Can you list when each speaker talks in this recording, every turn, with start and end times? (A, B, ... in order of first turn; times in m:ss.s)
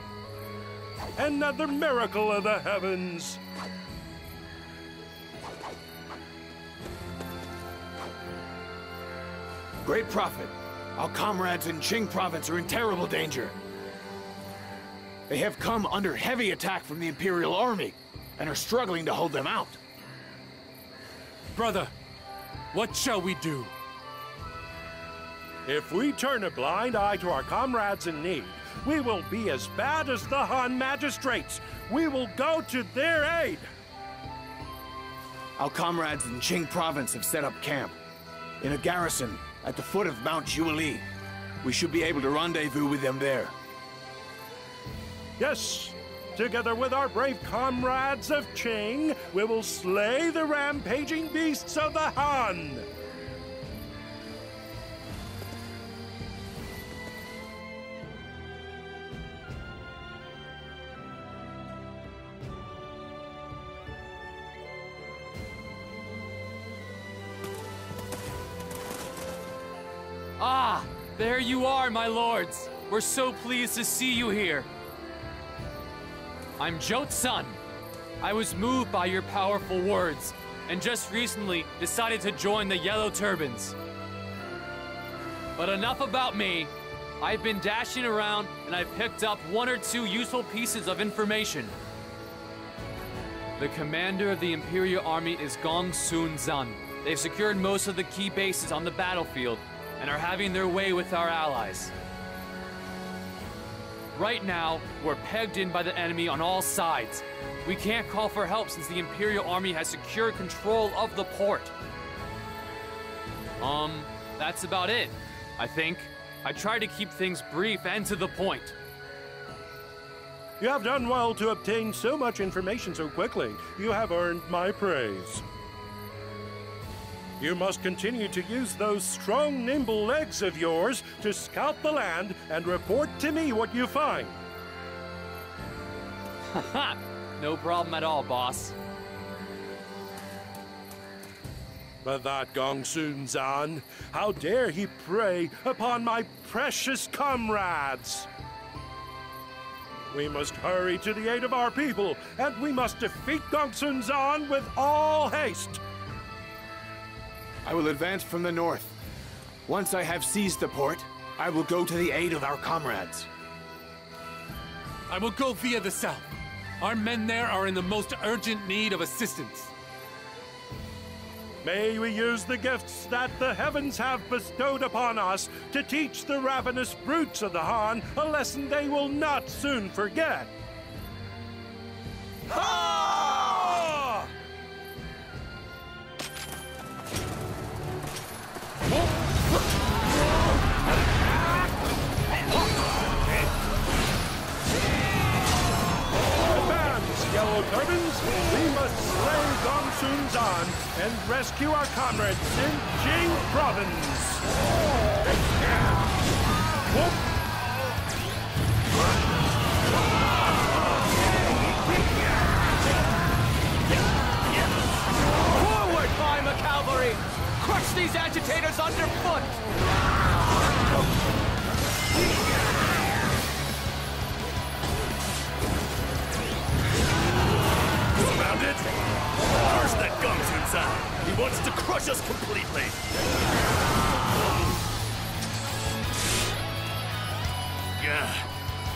0:01.2-0:03.4 A
0:09.8-0:13.5 B
0:15.3-0:19.8 B
0:21.5-0:21.9 C
0:22.7-0:23.7 C
0:25.6-0:33.7 A
0:35.6-0:38.0 B
0:38.6-0:41.0 B
0:41.6-0:43.5 B
0:45.4-0:52.9 A
1:10.4-1:14.7 D
1:16.6-1:17.6 D
1:18.2-1:23.8 D
1:25.6-1:31.7 D
1:33.6-1:41.9 D
1:44.1-1:51.7 D
1:53.6-1:58.7 D
2:00.6-2:05.4 A
2:07.4-2:14.4 A
2:16.5-2:18.8 D
2:22.0-2:28.3 A
2:30.1-2:35.8 A
2:37.6-2:39.0 B
2:39.7-2:43.3 B
2:45.1-2:46.3 C
2:46.8-2:49.7 C
2:51.6-3:00.5 A
3:16.4-3:24.4 A
3:35.5-3:39.5 E
3:48.2-3:48.9 F
3:49.5-3:53.0 F
3:58.0-3:58.5 F